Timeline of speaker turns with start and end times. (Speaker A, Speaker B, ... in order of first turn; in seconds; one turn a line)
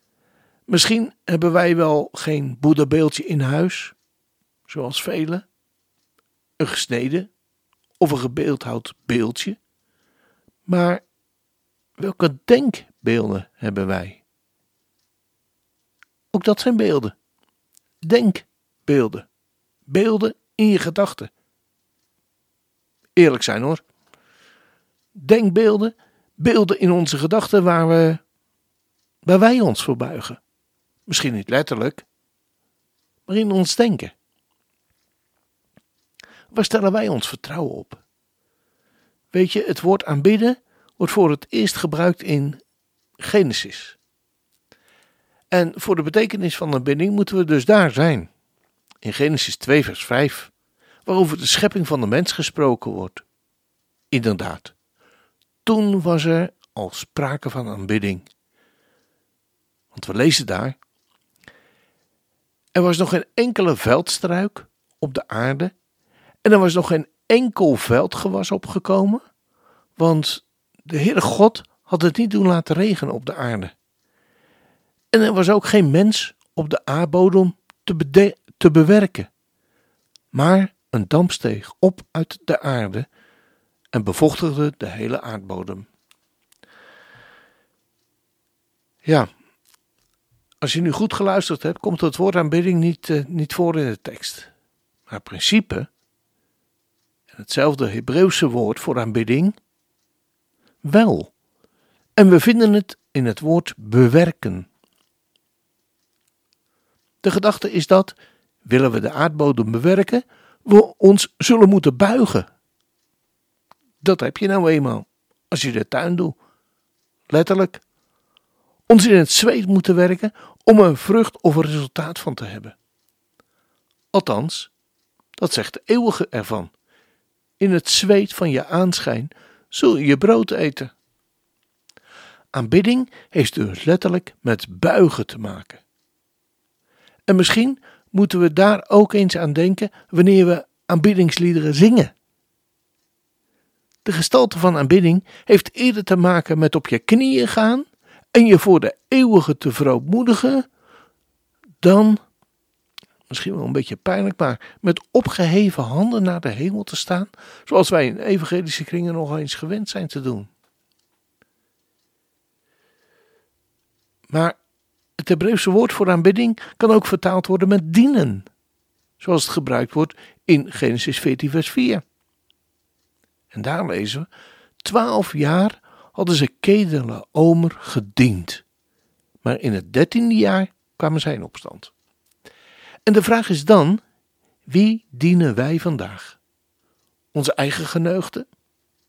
Speaker A: 0.7-3.9
Speaker A: 4.7-5.5
Speaker A: 6.6-7.3
Speaker A: 8.0-9.6
Speaker A: 10.7-11.0
Speaker A: 12.0-14.2
Speaker A: 16.3-17.1
Speaker A: 18.0-19.3
Speaker A: 19.9-21.3
Speaker A: 23.1-23.8
Speaker A: 25.1-28.2
Speaker A: 29.2-30.4
Speaker A: 31.1-32.0
Speaker A: 33.3-34.1
Speaker A: 36.5-38.0
Speaker A: 39.3-42.6
Speaker A: 43.2-44.0
Speaker A: 45.5-48.3
Speaker A: 49.0-50.5
Speaker A: 51.0-53.2
Speaker A: 54.1-54.7
Speaker A: 55.6-58.3
Speaker A: 59.9-60.8
Speaker A: 62.7-65.7
Speaker A: 66.4-69.2
Speaker A: 70.0-73.7
Speaker A: 75.1-79.3
Speaker A: 80.3-83.1
Speaker A: 83.9-85.9
Speaker A: 89.0-89.3
Speaker A: 90.6-94.5
Speaker A: 95.1-95.9
Speaker A: 97.3-99.6
Speaker A: 100.8-101.3
Speaker A: 102.2-104.7
Speaker A: 107.2-112.5
Speaker A: 114.0-116.4
Speaker A: 117.3-117.8
Speaker A: 118.9-122.7
Speaker A: 124.1-124.7
Speaker A: 125.4-126.7
Speaker A: 127.6-130.9
Speaker A: 132.5-135.8
Speaker A: 137.3-142.1
Speaker A: 144.0-150.7
Speaker A: 151.8-152.2
Speaker A: 153.3-160.5
Speaker A: 164.3-164.6
Speaker A: 165.2-168.5
Speaker A: 169.2-172.0
Speaker A: 173.5-174.3
Speaker A: 174.8-178.6
Speaker A: 179.4-181.9
Speaker A: 183.1-184.0
Speaker A: 184.7-186.4
Speaker A: 187.3-188.5